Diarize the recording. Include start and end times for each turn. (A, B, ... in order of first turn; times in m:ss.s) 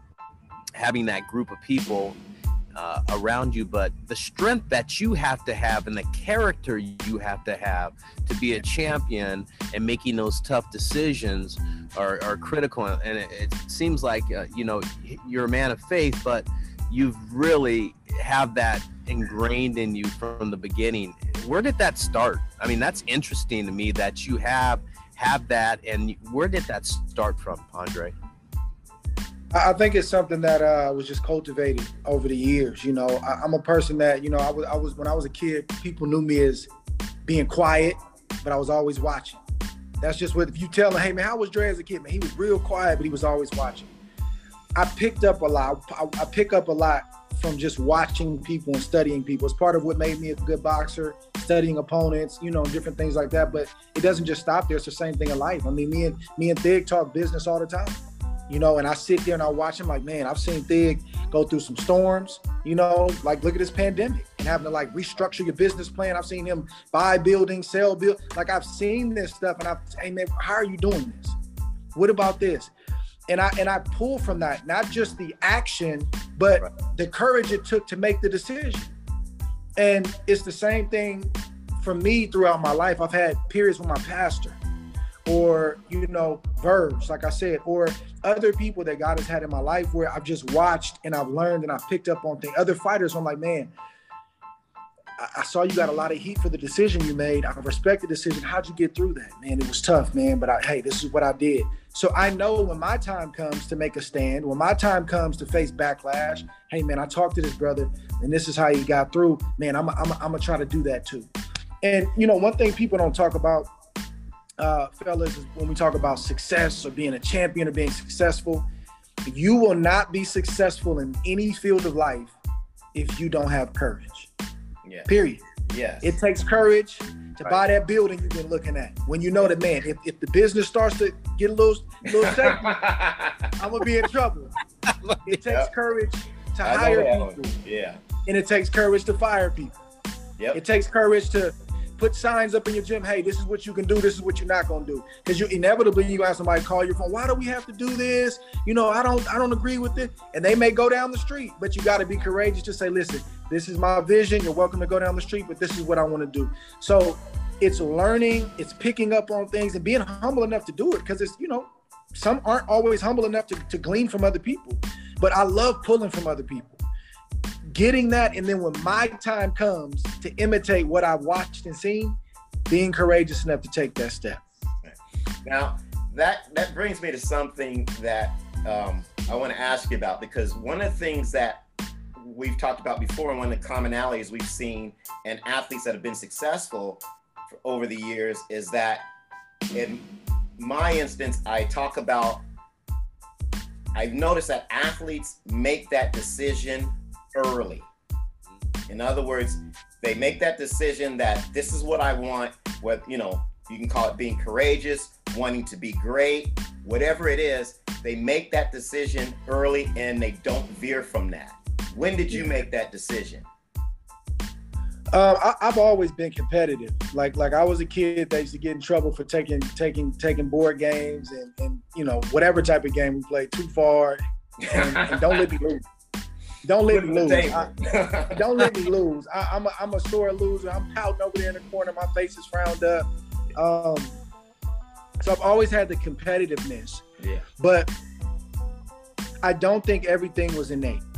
0:00.8-0:02.2 A
0:02.8-0:28.2 A
0:29.5-0:36.7 B
0:37.2-0:39.4 B
0:40.0-0:43.9 B
0:44.8-1:11.4 B
1:12.0-1:12.7 B
1:13.3-1:19.0 B
1:19.8-1:24.6 B
1:25.3-1:33.7 B
1:35.2-1:51.3 B
1:51.8-1:53.7 B
1:54.6-1:58.7 B
1:59.3-2:02.4 B
2:02.9-2:04.3 B
2:05.1-2:05.4 B
2:05.7-2:06.2 C
2:06.0-2:12.7 B
2:12.2-2:13.5 C
2:13.6-2:14.5 B
2:15.0-2:15.4 A
2:15.2-2:17.6 B
2:16.6-2:18.0 C
2:18.3-2:19.8 B
2:20.5-2:46.8 B
2:47.7-2:54.4 B
2:54.8-3:01.6 C
3:02.2-3:09.1 C
3:09.7-3:10.1 C
3:10.6-3:12.4 C
3:14.0-3:17.9 C
3:18.9-3:33.5 C
3:35.1-3:45.8 B
3:44.6-3:45.4 C
3:46.6-3:47.7 B
3:46.9-3:48.7 C
3:48.3-3:54.2 B
3:55.2-3:57.0 B
3:57.6-3:57.9 B
3:59.4-4:01.0 B